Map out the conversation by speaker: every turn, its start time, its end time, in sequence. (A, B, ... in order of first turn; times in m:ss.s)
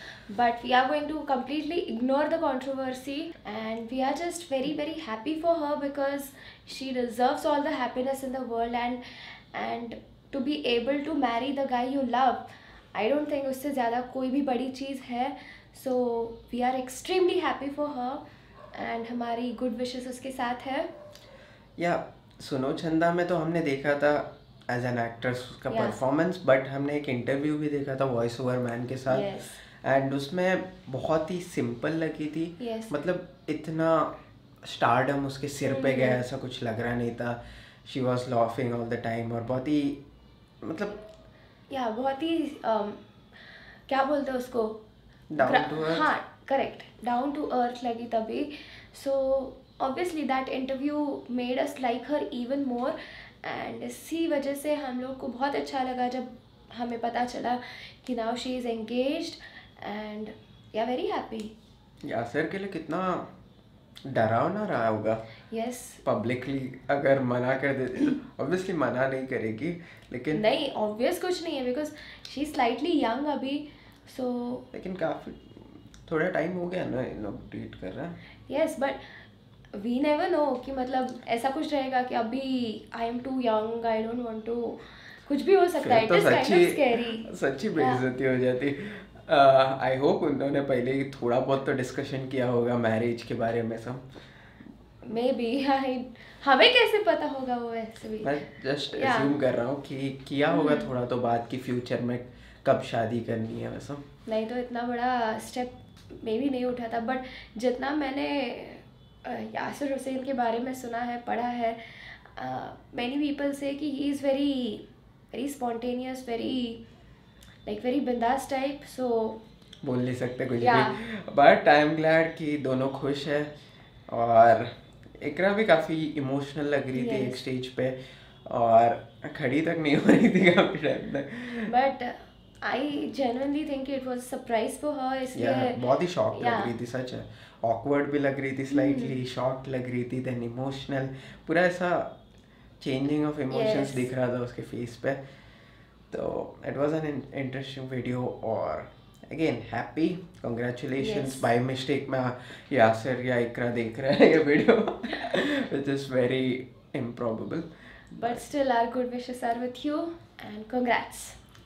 0:00.3-0:18.2 A
0:18.7-0:20.9 A
0:21.8-0:40.0 B
0:25.7-0:26.0 A
0:29.1-0:29.6 A
0:32.6-0:32.9 A
0:35.6-0:36.2 A
0:40.6-0:41.0 B
0:41.7-0:43.0 A
0:43.9-0:44.8 A
0:45.3-0:46.1 B
0:45.4-1:01.5 A
1:02.0-1:03.3 B
1:04.1-1:05.2 B
1:05.5-1:06.0 A
1:06.0-1:10.4 B
1:10.3-1:14.6 A
1:14.7-1:18.2 B
1:18.5-1:19.2 A
1:19.7-1:28.0 A
1:25.8-1:34.0 B
1:35.0-1:38.3 A
1:38.2-1:44.0 B
1:38.9-1:39.4 A
1:40.5-1:40.9 A
1:44.2-1:56.8 A
1:57.6-1:59.4 A
1:59.8-2:03.5 B
2:00.6-2:01.0 A
2:04.1-2:11.7 B
2:06.9-2:07.4 A
2:11.7-2:15.8 A
2:15.3-2:22.1 B
2:16.3-2:16.7 A
2:18.7-2:19.2 A
2:22.8-2:25.2 B
2:23.5-2:24.1 A
2:26.1-2:38.4 B
2:31.0-2:31.5 A
2:38.2-2:41.4 A